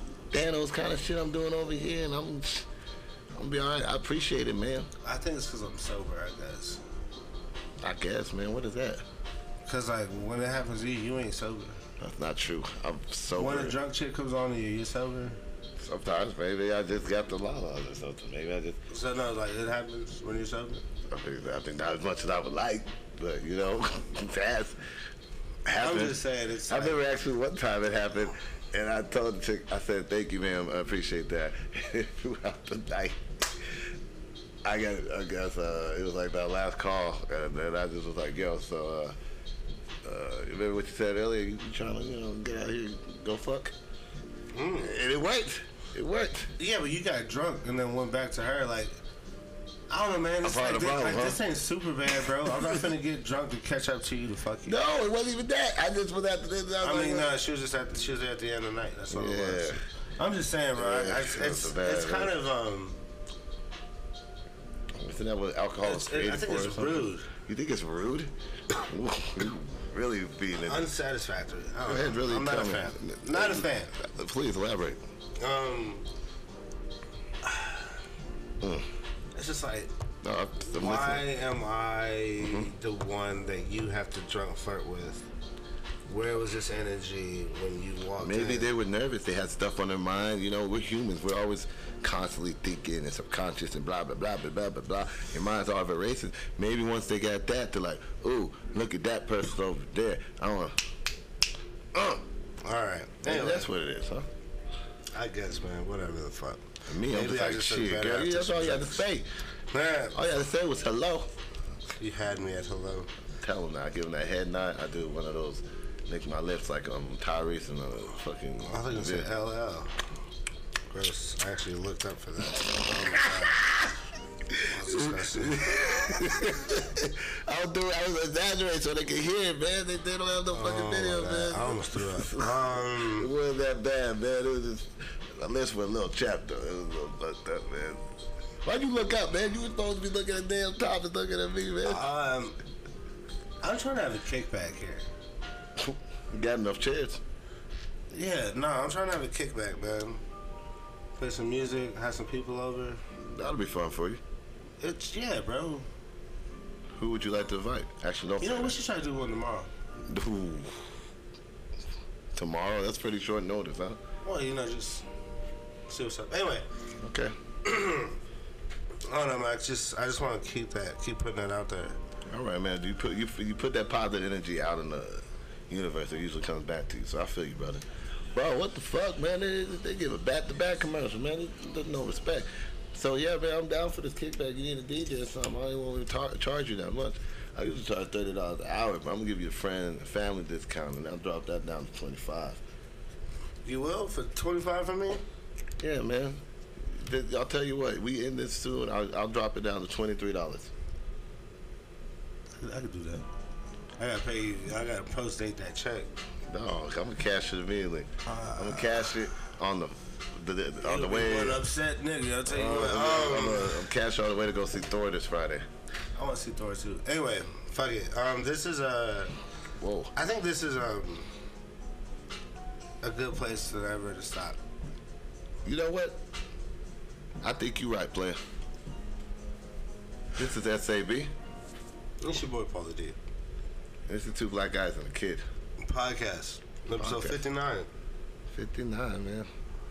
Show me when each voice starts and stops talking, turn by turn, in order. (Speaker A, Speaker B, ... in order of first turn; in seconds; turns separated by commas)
Speaker A: 0.3-2.7, Speaker A: 3.3-4.9, Speaker B: 5.0-6.8, Speaker A: 7.8-9.0, Speaker B: 9.6-11.8, Speaker A: 12.0-13.8, Speaker B: 13.3-15.4, Speaker A: 15.8-18.8, Speaker B: 18.9-20.8, Speaker A: 21.1-24.8, Speaker A: 25.6-33.8, Speaker B: 25.7-27.0, Speaker A: 34.6-39.1, Speaker A: 40.0-43.7, Speaker B: 44.5-45.0, Speaker A: 44.8-46.5, Speaker B: 46.6-49.0, Speaker B: 49.9-54.8, Speaker A: 50.4-51.4, Speaker A: 52.5-52.8, Speaker A: 54.7-57.3, Speaker B: 56.8-63.0, Speaker A: 59.1-59.8, Speaker A: 60.7-62.3, Speaker A: 64.9-70.9, Speaker B: 65.8-67.3, Speaker B: 70.5-73.9, Speaker A: 71.9-75.0, Speaker B: 75.4-76.0, Speaker B: 77.4-77.9, Speaker A: 78.6-78.9, Speaker B: 79.3-79.9, Speaker A: 80.2-81.2, Speaker B: 80.6-85.3, Speaker A: 82.4-82.7, Speaker B: 86.1-88.7, Speaker A: 88.2-100.7, Speaker A: 101.9-102.2, Speaker B: 102.6-103.7, Speaker A: 103.2-104.3, Speaker B: 105.1-109.0, Speaker A: 106.9-109.3, Speaker B: 109.7-110.2, Speaker A: 110.1-111.3, Speaker B: 112.0-113.1, Speaker A: 113.4-119.3, Speaker B: 118.6-120.0, Speaker B: 120.9-123.7, Speaker A: 123.2-123.9, Speaker A: 124.5-138.0, Speaker B: 124.6-125.8, Speaker B: 130.5-133.3, Speaker A: 138.6-142.0, Speaker B: 141.8-142.6, Speaker B: 143.6-145.1, Speaker A: 145.8-147.2, Speaker B: 148.1-150.2, Speaker B: 151.2-153.0, Speaker A: 153.2-154.2, Speaker B: 154.8-155.9, Speaker A: 156.9-158.8, Speaker B: 158.4-159.7, Speaker A: 160.0-160.8, Speaker A: 162.3-164.0, Speaker B: 164.2-165.1, Speaker B: 165.9-166.7, Speaker A: 167.0-167.3, Speaker B: 167.6-168.2, Speaker B: 169.1-172.0, Speaker A: 172.3-192.6, Speaker B: 193.6-195.2, Speaker A: 195.8-200.7, Speaker B: 202.6-203.2, Speaker B: 204.0-206.1, Speaker A: 206.5-211.7, Speaker B: 208.2-209.1, Speaker B: 210.8-213.8, Speaker A: 212.4-215.6, Speaker B: 216.2-219.3, Speaker A: 219.8-220.1, Speaker B: 220.1-221.3, Speaker B: 223.0-224.6, Speaker A: 225.6-226.2, Speaker A: 227.4-228.4, Speaker A: 230.3-231.3, Speaker B: 232.2-233.2, Speaker A: 234.1-235.4, Speaker B: 235.8-237.9, Speaker A: 236.9-237.4, Speaker A: 238.5-239.5